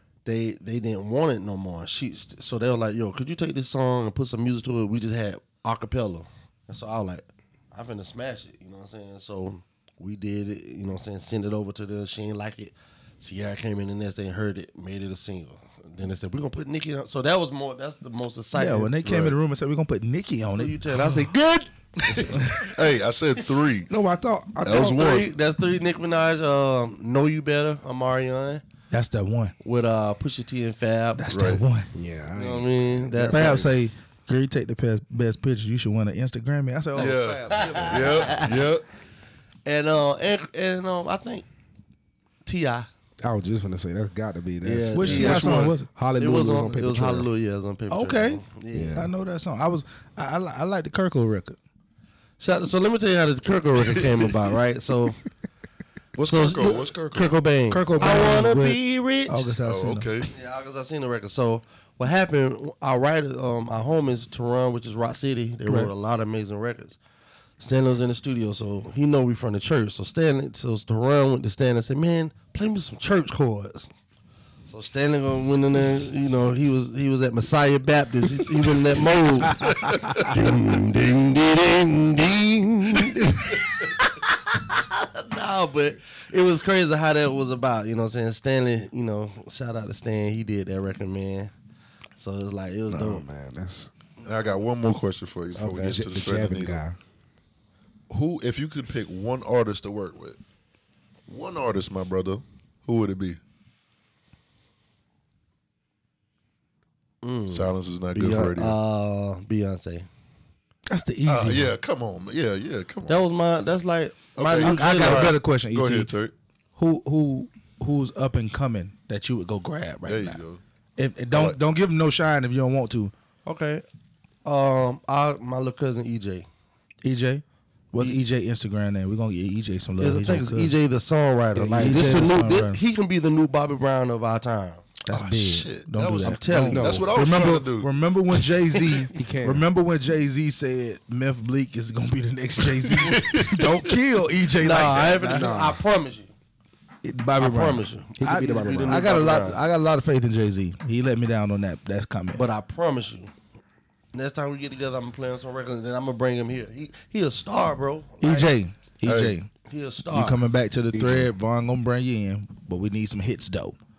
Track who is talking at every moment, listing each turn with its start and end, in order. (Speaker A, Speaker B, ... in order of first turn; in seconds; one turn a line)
Speaker A: 0.2-19.3
Speaker B: 18.5-21.3
Speaker A: 20.6-22.7
Speaker C: 22.1-23.9
Speaker D: 23.9-25.1
Speaker C: 24.6-25.3
Speaker A: 24.7-28.6
Speaker B: 28.9-29.5
Speaker A: 29.6-31.3
Speaker B: 31.1-31.9
Speaker C: 31.3-31.6
Speaker D: 31.9-33.7
Speaker A: 32.3-33.7
Speaker B: 33.3-37.4
Speaker C: 37.0-38.8
Speaker A: 37.4-38.6
Speaker A: 39.6-41.5
Speaker A: 42.5-42.9
Speaker D: 43.2-47.3
Speaker A: 44.6-49.1
Speaker B: 44.9-45.9
Speaker B: 47.9-48.4
Speaker D: 48.7-49.1
Speaker B: 48.9-51.6
Speaker A: 52.4-55.2
Speaker C: 56.1-57.4
Speaker A: 56.2-59.5
Speaker B: 57.7-60.2
Speaker C: 59.6-60.3
Speaker A: 60.3-67.0
Speaker A: 67.6-73.9
Speaker A: 74.7-91.5
Speaker A: 92.2-93.2
Speaker D: 92.9-93.9
Speaker C: 94.2-96.8
Speaker A: 95.6-95.9
Speaker D: 95.6-97.0
Speaker C: 98.1-100.4
Speaker C: 101.3-103.4
Speaker A: 107.2-110.1
Speaker C: 107.5-108.8
Speaker B: 110.9-111.7
Speaker C: 111.2-113.2
Speaker A: 113.1-115.3
Speaker C: 114.3-116.3
Speaker B: 114.6-116.1
Speaker B: 116.8-120.4
Speaker C: 120.0-120.6
Speaker B: 121.0-123.1
Speaker C: 121.3-121.6
Speaker A: 123.5-123.8
Speaker A: 124.4-126.5
Speaker B: 127.0-130.7
Speaker A: 130.0-134.8
Speaker D: 131.5-132.3
Speaker B: 131.7-132.8
Speaker B: 135.1-145.7
Speaker C: 135.1-137.9
Speaker A: 136.2-136.9
Speaker D: 136.6-137.1
Speaker D: 139.1-139.6
Speaker C: 143.0-143.8
Speaker A: 144.6-146.3
Speaker D: 145.2-145.8
Speaker B: 147.0-152.4
Speaker A: 147.3-149.6
Speaker D: 148.2-149.1
Speaker A: 152.3-153.3
Speaker A: 154.1-158.5
Speaker B: 158.2-159.5
Speaker C: 159.1-159.4
Speaker A: 159.6-160.4
Speaker B: 160.1-163.8
Speaker D: 160.9-161.3